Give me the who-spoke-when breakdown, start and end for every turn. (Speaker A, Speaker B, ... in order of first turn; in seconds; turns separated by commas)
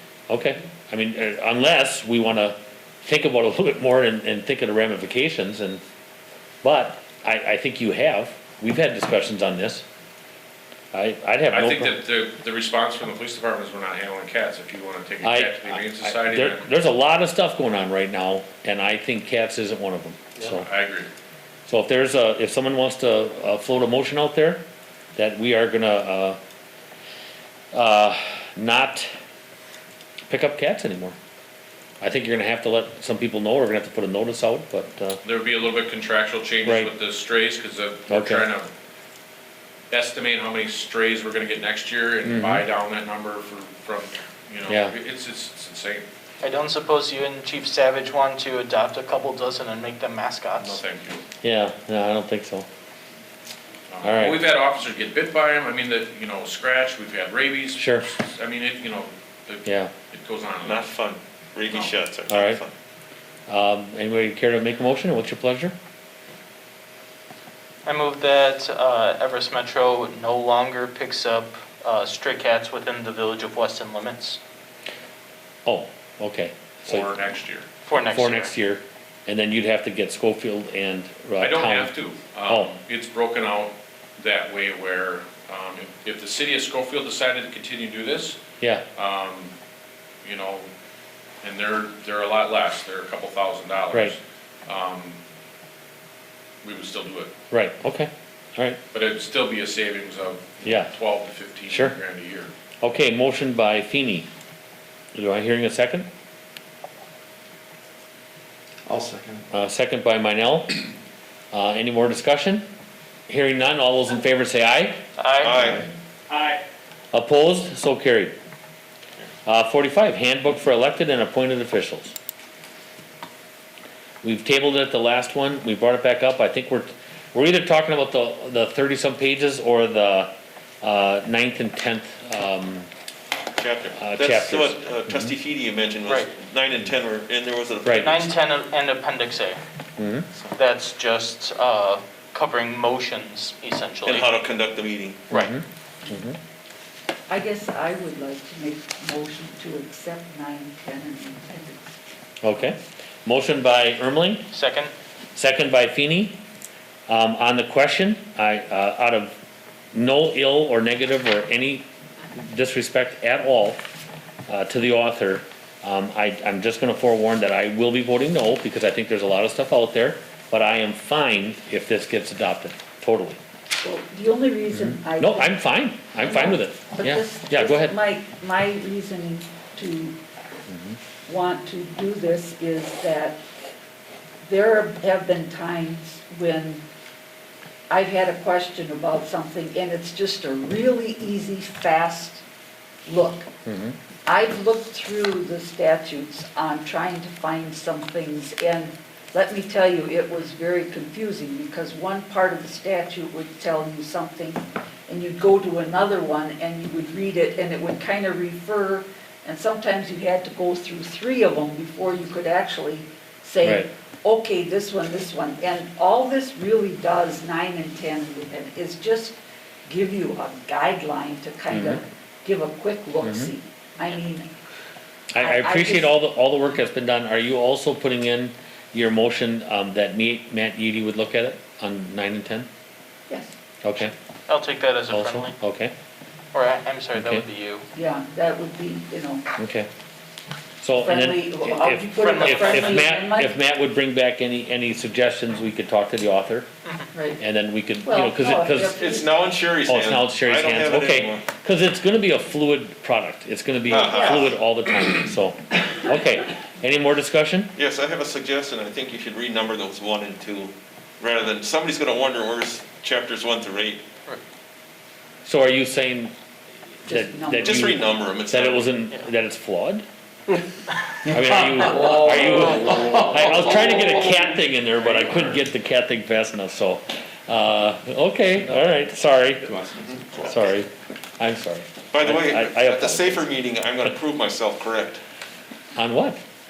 Speaker A: 0.3-5.8, Speaker A: 6.6-9.8, Speaker A: 10.9-11.9, Speaker B: 11.5-16.8, Speaker A: 15.2-20.7, Speaker B: 20.4-21.1, Speaker A: 21.7-24.6, Speaker A: 25.1-26.4, Speaker A: 27.7-29.1, Speaker A: 30.3-31.1, Speaker A: 32.0-35.2, Speaker B: 35.2-38.7, Speaker A: 36.6-36.9, Speaker A: 38.1-38.5, Speaker B: 39.9-46.0, Speaker A: 42.2-42.6, Speaker A: 44.7-44.9, Speaker C: 46.4-50.8, Speaker B: 50.6-51.2, Speaker A: 51.4-52.7, Speaker B: 53.9-60.9, Speaker A: 54.0-54.4, Speaker A: 57.8-58.1, Speaker A: 59.6-59.9, Speaker D: 60.6-62.7, Speaker A: 62.3-62.6, Speaker A: 63.5-65.7, Speaker C: 67.8-74.4, Speaker A: 75.7-77.1, Speaker B: 76.8-77.8, Speaker C: 77.8-78.5, Speaker A: 78.1-81.9, Speaker B: 81.4-88.4, Speaker A: 82.5-82.7, Speaker B: 88.9-89.5, Speaker B: 90.2-90.7, Speaker B: 91.4-95.2, Speaker B: 96.6-97.3, Speaker A: 97.5-98.8, Speaker B: 98.9-102.5, Speaker A: 100.6-100.9, Speaker A: 101.7-102.0, Speaker A: 102.8-104.3, Speaker A: 105.1-106.1, Speaker E: 108.9-109.4, Speaker A: 109.5-110.9, Speaker A: 111.5-112.7, Speaker A: 113.3-115.0, Speaker C: 115.3-115.7, Speaker D: 115.4-115.8, Speaker A: 117.1-118.3, Speaker A: 119.4-122.1, Speaker A: 124.2-132.9, Speaker D: 133.6-138.4, Speaker A: 134.0-135.3, Speaker A: 137.8-138.1, Speaker C: 137.9-139.6, Speaker A: 140.0-140.3, Speaker C: 140.5-144.3, Speaker D: 144.0-145.2, Speaker A: 145.3-146.4, Speaker F: 147.3-152.0, Speaker A: 152.4-154.5, Speaker C: 154.5-154.9, Speaker A: 155.3-156.4, Speaker A: 157.1-159.4, Speaker A: 159.9-163.9, Speaker A: 164.5-173.4, Speaker F: 173.8-175.6, Speaker A: 174.7-178.0, Speaker F: 176.2-180.2, Speaker A: 180.7-181.0, Speaker F: 181.2-183.4, Speaker F: 184.4-186.8, Speaker F: 187.9-192.4, Speaker F: 193.1-193.5, Speaker A: 193.7-194.0, Speaker F: 194.2-224.5, Speaker A: 221.7-222.0, Speaker A: 223.2-223.5, Speaker A: 225.3-232.7, Speaker F: 225.4-226.2, Speaker A: 233.8-234.1, Speaker C: 234.5-235.6, Speaker A: 235.1-235.9, Speaker C: 236.5-237.8, Speaker A: 237.1-237.5, Speaker F: 237.9-239.4, Speaker A: 239.6-239.9, Speaker A: 240.8-246.7, Speaker F: 241.0-243.5, Speaker C: 242.2-243.1, Speaker F: 247.1-247.4, Speaker A: 247.4-249.0, Speaker F: 248.0-249.5, Speaker D: 248.9-251.4, Speaker A: 249.8-257.7, Speaker D: 253.9-254.6, Speaker F: 254.1-254.5, Speaker D: 257.7-264.0, Speaker A: 265.4-266.3, Speaker A: 267.0-270.0, Speaker F: 267.1-268.1, Speaker D: 267.6-268.9, Speaker A: 271.2-279.7, Speaker E: 271.7-273.9, Speaker E: 279.6-280.5, Speaker A: 280.4-283.5, Speaker D: 282.1-285.2, Speaker A: 285.9-286.4